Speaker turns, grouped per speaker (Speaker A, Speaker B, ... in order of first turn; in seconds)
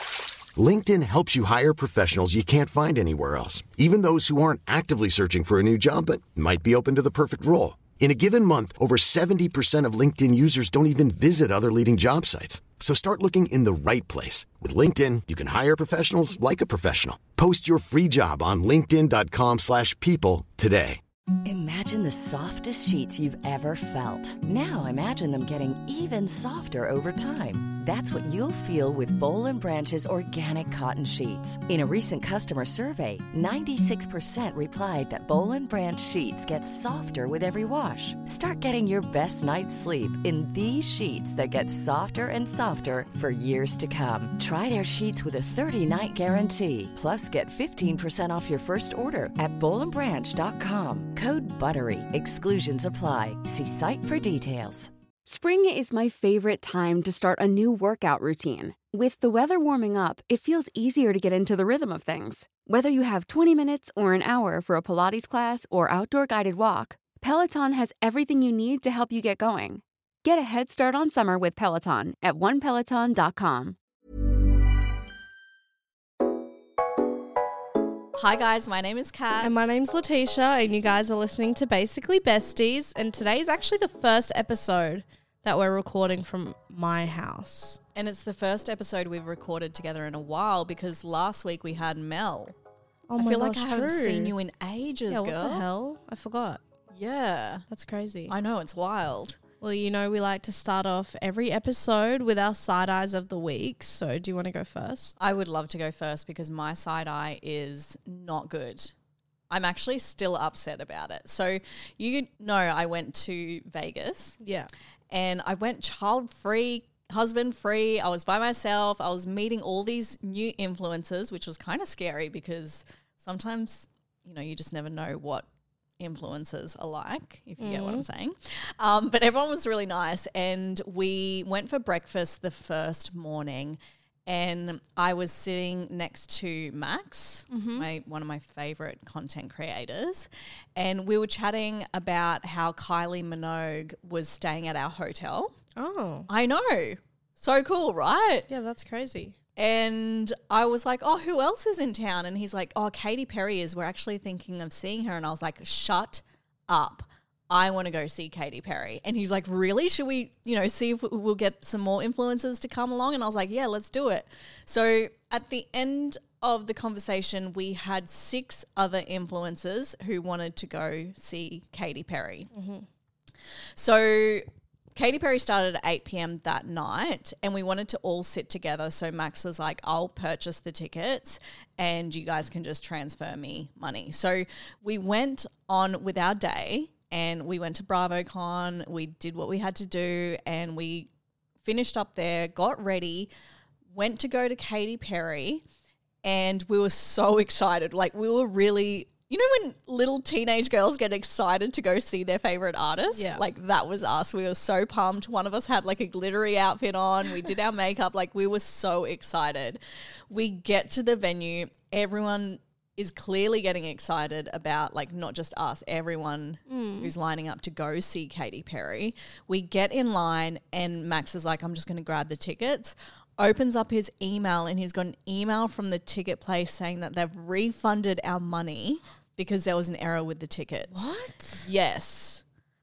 Speaker A: 0.6-21.0
Speaker B: 21.4-54.9
Speaker C: 55.2-73.8
Speaker D: 78.2-79.5, 88.0-92.5, 93.2-95.7, 96.9-97.7, 98.3-99.4, 105.2-108.9, 109.5-114.4, 115.1-125.5, 126.0-145.5, 146.3-148.5, 149.6-172.5, 173.8-191.1, 191.6-193.3, 193.9-195.6, 196.2-232.4
Speaker E: 79.4-87.8, 93.1-94.3, 95.1-96.6, 97.7-98.3, 99.6-105.2, 114.4-114.7, 127.6-128.1, 137.5-137.9, 145.8-146.3, 148.5-149.4, 172.5-172.9, 203.1-203.4, 216.7-217.1, 230.9-231.7